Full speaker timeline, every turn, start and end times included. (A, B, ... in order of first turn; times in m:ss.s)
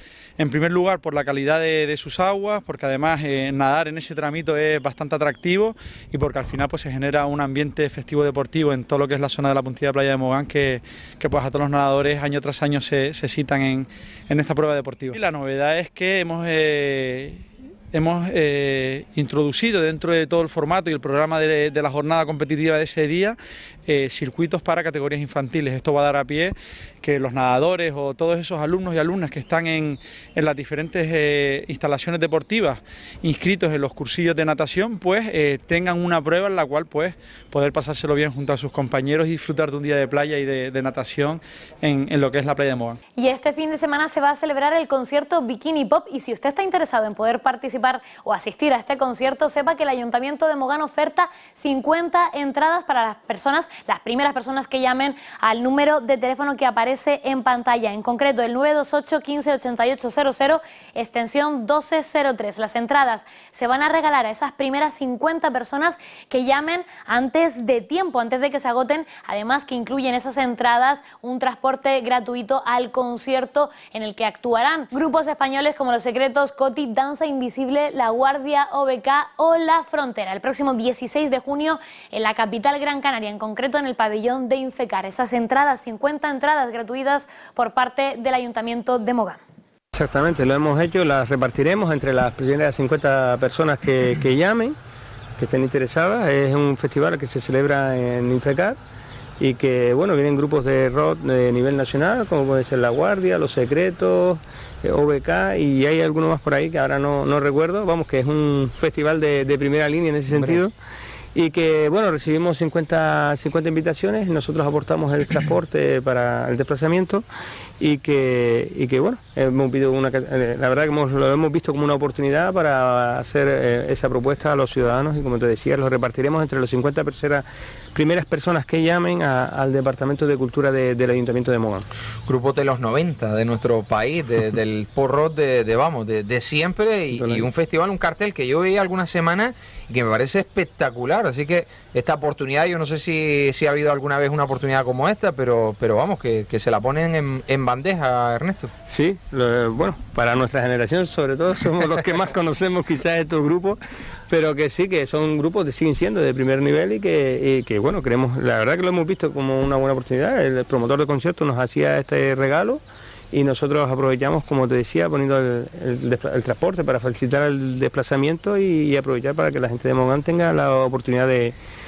0:00.4-0:43.0 A
0:43.2-1:29.4 B
1:29.9-1:34.8 C
1:35.4-1:38.8 C
1:39.4-1:50.7 C
1:50.3-1:50.6 D
1:51.3-1:57.2 C
1:57.8-2:11.8 C
2:12.2-2:28.7 D
2:17.1-2:17.5 C
2:28.9-2:42.8 C
2:43.3-2:51.6 C